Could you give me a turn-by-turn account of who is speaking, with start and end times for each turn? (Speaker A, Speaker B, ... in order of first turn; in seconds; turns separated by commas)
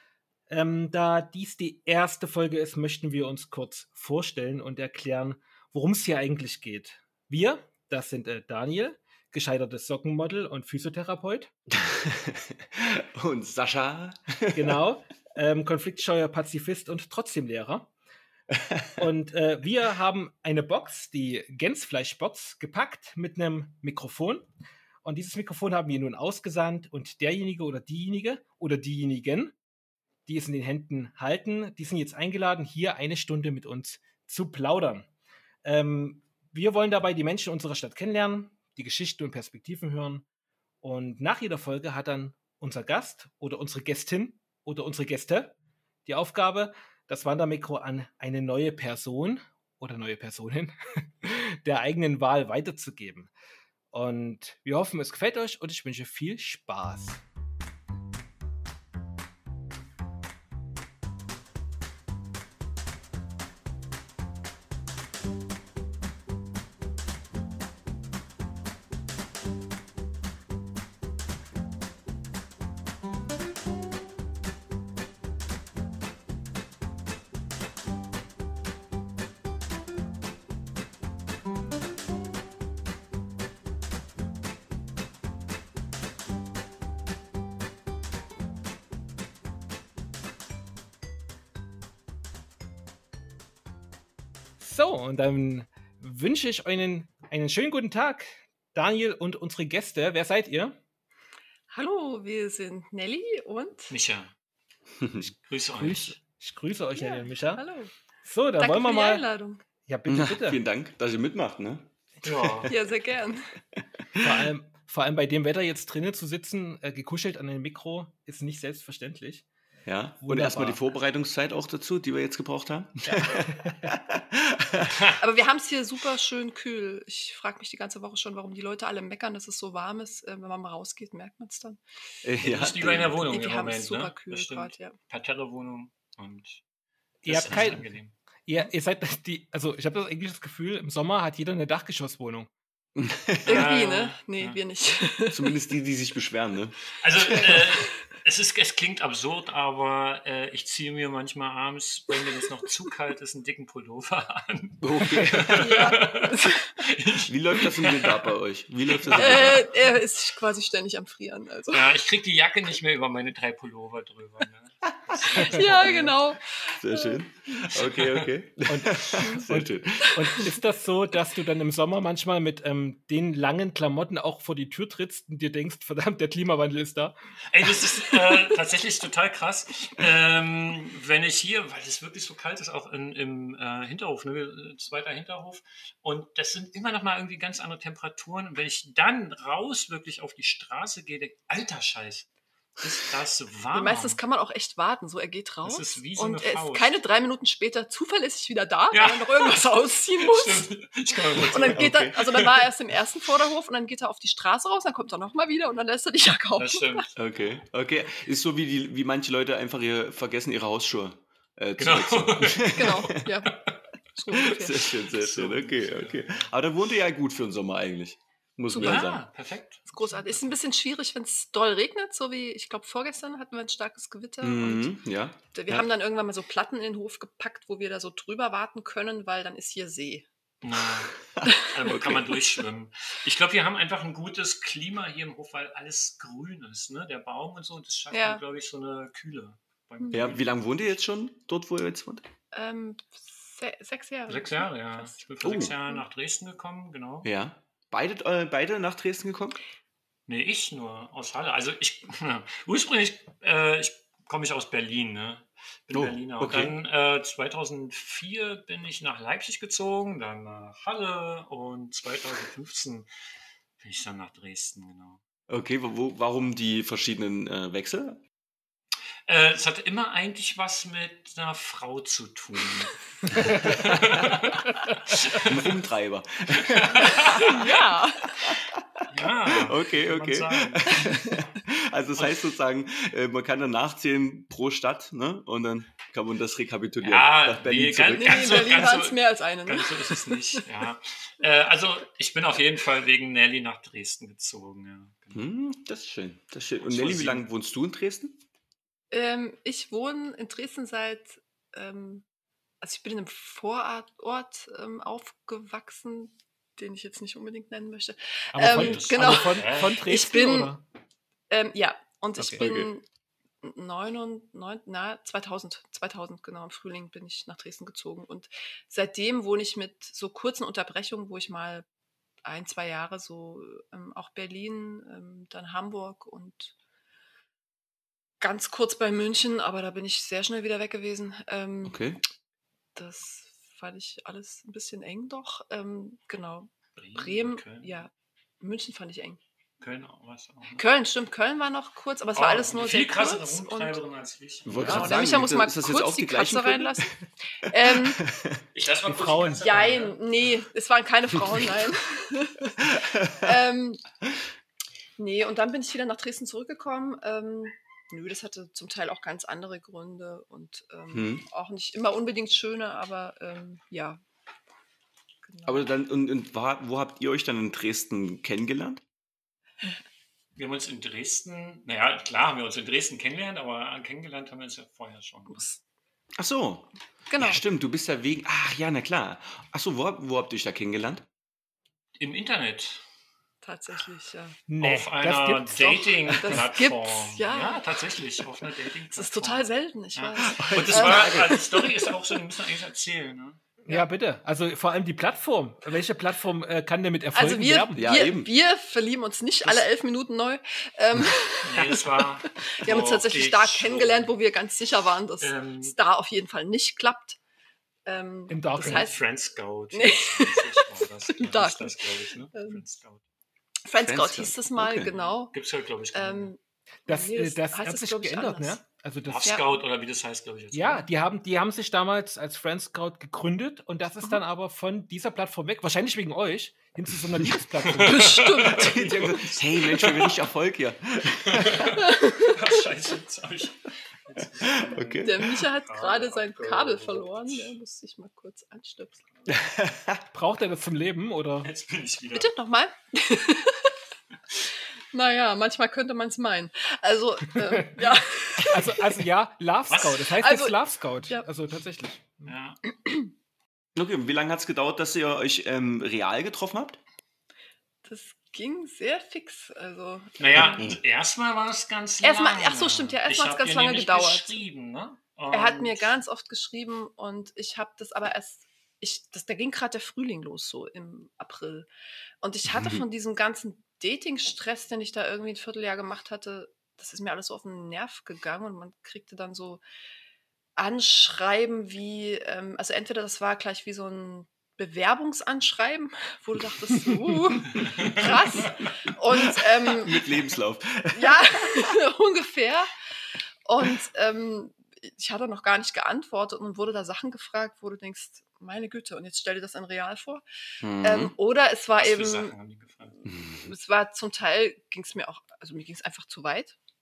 Speaker A: 0.5-11.5, Speaker B: 11.7-14.8, Speaker A: 14.5-17.9, Speaker B: 18.6-18.8, Speaker A: 19.0-24.5, Speaker A: 25.0-29.5, Speaker A: 30.2-35.1, Speaker A: 35.6-40.2, Speaker A: 40.8-45.5, Speaker A: 46.0-53.3, Speaker A: 53.9-57.2, Speaker A: 94.6-100.8, Speaker C: 101.7-103.9, Speaker D: 103.9-104.3, Speaker B: 105.0-105.3, Speaker D: 105.5-106.2, Speaker A: 105.8-107.6, Speaker C: 106.9-107.9, Speaker A: 108.2-109.2, Speaker C: 108.6-109.6, Speaker A: 109.8-110.6, Speaker B: 110.1-111.9, Speaker D: 112.2-112.7, Speaker C: 112.7-113.5, Speaker B: 114.1-114.4, Speaker A: 114.2-119.4, Speaker B: 119.8-125.0, Speaker A: 120.2-120.8, Speaker A: 123.0-123.7, Speaker C: 125.2-131.8, Speaker B: 132.2-133.1, Speaker D: 132.4-136.6, Speaker C: 133.2-134.9, Speaker D: 137.2-138.1, Speaker A: 137.2-137.8, Speaker A: 138.4-142.5, Speaker B: 142.9-143.8, Speaker D: 143.4-144.6, Speaker C: 143.4-145.6, Speaker B: 145.3-147.6, Speaker D: 147.0-158.3, Speaker B: 154.8-155.9, Speaker C: 155.5-156.8, Speaker B: 157.2-159.7, Speaker D: 158.9-159.7, Speaker C: 159.1-161.9, Speaker D: 161.7-166.2, Speaker C: 165.3-167.7, Speaker A: 165.3-165.6, Speaker B: 166.7-170.2, Speaker D: 167.7-168.3, Speaker A: 168.7-177.1, Speaker C: 169.2-169.4, Speaker C: 170.0-170.6, Speaker D: 177.5-194.2, Speaker C: 193.7-207.0, Speaker D: 195.6-197.0, Speaker D: 198.9-202.1, Speaker B: 201.7-202.5, Speaker D: 206.6-207.6, Speaker B: 207.2-213.2, Speaker D: 211.8-213.6, Speaker C: 212.7-213.5, Speaker C: 214.1-214.9, Speaker B: 214.3-219.2, Speaker D: 215.0-216.5, Speaker C: 218.7-219.2, Speaker D: 218.8-220.5, Speaker C: 219.9-224.9, Speaker B: 224.4-225.9, Speaker C: 225.5-230.3, Speaker D: 230.6-240.5, Speaker B: 231.4-232.2, Speaker C: 231.4-232.0, Speaker C: 238.1-238.4, Speaker C: 240.0-240.3, Speaker B: 240.1-242.2, Speaker C: 242.5-246.0, Speaker D: 244.3-247.3, Speaker B: 245.4-245.7, Speaker B: 247.2-249.6, Speaker D: 250.3-263.1, Speaker B: 255.9-256.7, Speaker D: 263.8-265.2, Speaker B: 265.5-268.2, Speaker D: 269.3-275.8, Speaker B: 275.4-277.5, Speaker D: 276.5-277.8, Speaker C: 277.0-278.6, Speaker B: 278.4-288.8, Speaker D: 279.1-281.4, Speaker C: 280.9-281.4, Speaker D: 282.1-282.5, Speaker D: 287.0-295.4, Speaker C: 288.1-290.6, Speaker B: 295.3-298.4, Speaker D: 296.8-297.5, Speaker C: 299.1-302.2, Speaker C: 302.8-310.8, Speaker A: 308.5-310.8, Speaker D: 308.6-310.0, Speaker C: 311.5-313.0, Speaker A: 312.4-312.6, Speaker B: 312.6-312.9, Speaker C: 313.6-321.8, Speaker C: 322.4-326.7, Speaker C: 328.4-332.1, Speaker B: 331.8-332.2, Speaker C: 332.9-339.4, Speaker D: 336.9-338.0, Speaker D: 339.8-340.8, Speaker C: 340.8-344.0, Speaker D: 342.4-345.3, Speaker B: 344.6-347.1, Speaker C: 344.7-348.2, Speaker B: 347.9-348.6, Speaker D: 348.7-350.2, Speaker A: 349.1-349.9, Speaker C: 349.6-354.0, Speaker B: 352.9-353.4, Speaker C: 355.2-364.2, Speaker B: 361.1-361.4, Speaker C: 365.4-365.8, Speaker B: 365.6-369.0, Speaker D: 370.6-375.7, Speaker C: 375.5-375.8, Speaker B: 376.4-381.2, Speaker C: 377.3-377.6, Speaker D: 382.2-383.0, Speaker C: 383.6-384.6, Speaker A: 384.7-386.0, Speaker D: 384.8-393.6, Speaker C: 385.8-388.4, Speaker C: 389.1-392.0, Speaker B: 390.4-391.9, Speaker A: 393.8-398.0, Speaker C: 397.3-407.4, Speaker B: 397.9-398.5, Speaker D: 401.6-404.3, Speaker D: 405.4-405.9, Speaker C: 408.1-409.2, Speaker A: 408.5-409.1, Speaker D: 408.8-413.2, Speaker C: 409.9-412.8, Speaker C: 413.8-415.5, Speaker B: 414.0-415.1, Speaker D: 415.0-416.5, Speaker C: 416.1-418.8, Speaker A: 417.1-419.6, Speaker D: 419.2-421.1, Speaker C: 419.4-419.8, Speaker A: 420.7-428.4, Speaker D: 427.8-430.3, Speaker C: 428.0-430.2, Speaker B: 428.7-431.9, Speaker D: 431.4-437.8, Speaker C: 431.9-432.7, Speaker B: 434.4-435.5, Speaker C: 435.2-439.2, Speaker B: 439.5-440.2, Speaker A: 440.3-441.7, Speaker D: 441.6-442.5, Speaker C: 442.3-443.9, Speaker C: 445.1-449.0, Speaker A: 448.6-452.5, Speaker D: 449.9-450.3, Speaker C: 450.4-450.8, Speaker D: 452.4-452.8, Speaker C: 452.9-453.3, Speaker B: 453.9-457.0, Speaker C: 458.0-460.9, Speaker D: 460.4-466.1, Speaker B: 460.6-461.0, Speaker C: 462.2-464.6, Speaker C: 465.5-471.9, Speaker C: 472.4-479.8, Speaker B: 472.7-473.0, Speaker C: 480.8-490.2, Speaker D: 487.8-488.3, Speaker B: 489.3-491.4, Speaker C: 491.1-492.9, Speaker C: 493.6-500.4, Speaker B: 500.8-501.3, Speaker C: 501.0-502.5, Speaker D: 502.0-503.1, Speaker B: 503.2-503.7, Speaker C: 503.6-506.8